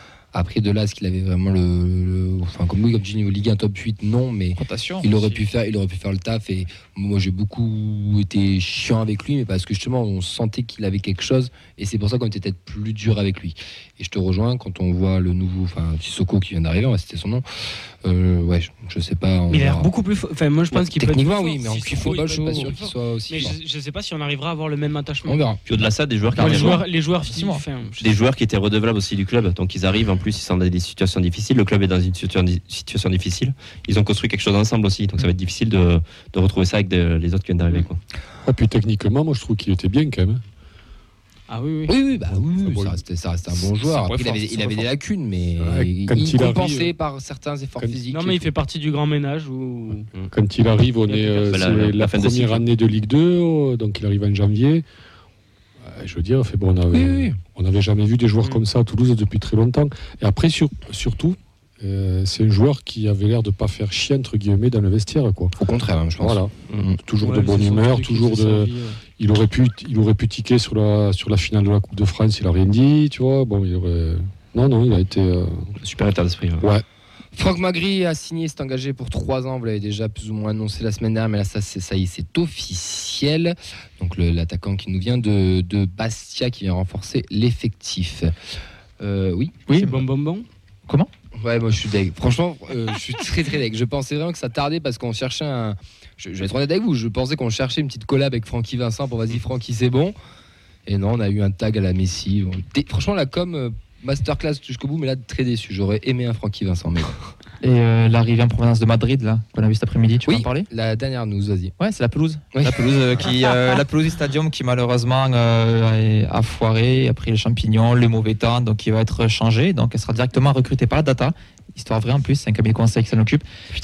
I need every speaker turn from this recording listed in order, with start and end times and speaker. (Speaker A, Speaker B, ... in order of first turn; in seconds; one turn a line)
Speaker A: 0.3-17.4
Speaker B: 4.6-5.4
Speaker A: 18.0-19.9
Speaker C: 19.5-25.5
Speaker A: 20.7-23.6
Speaker A: 25.3-25.6
Speaker D: 25.7-26.8
Speaker B: 26.4-27.6
Speaker C: 26.4-28.2
Speaker D: 28.0-38.0
Speaker E: 38.5-40.4
Speaker C: 41.5-42.0
Speaker A: 41.9-48.5
Speaker E: 42.5-43.0
Speaker D: 44.3-44.8
Speaker E: 45.6-47.0
Speaker C: 48.1-50.1
Speaker E: 50.3-54.9
Speaker C: 51.0-51.7
Speaker D: 51.5-52.6
Speaker E: 55.9-65.6
Speaker A: 56.9-57.4
Speaker A: 65.6-67.0
Speaker E: 66.2-75.8
Speaker C: 67.2-69.0
Speaker D: 75.8-76.7
Speaker E: 76.6-76.8
Speaker A: 77.3-88.3
Speaker A: 89.0-89.6
Speaker B: 89.7-90.0
Speaker C: 89.7-90.5
Speaker A: 91.4-100.2
Speaker A: 100.9-107.2
Speaker B: 107.6-110.7
Speaker A: 110.3-111.7
Speaker B: 111.8-123.5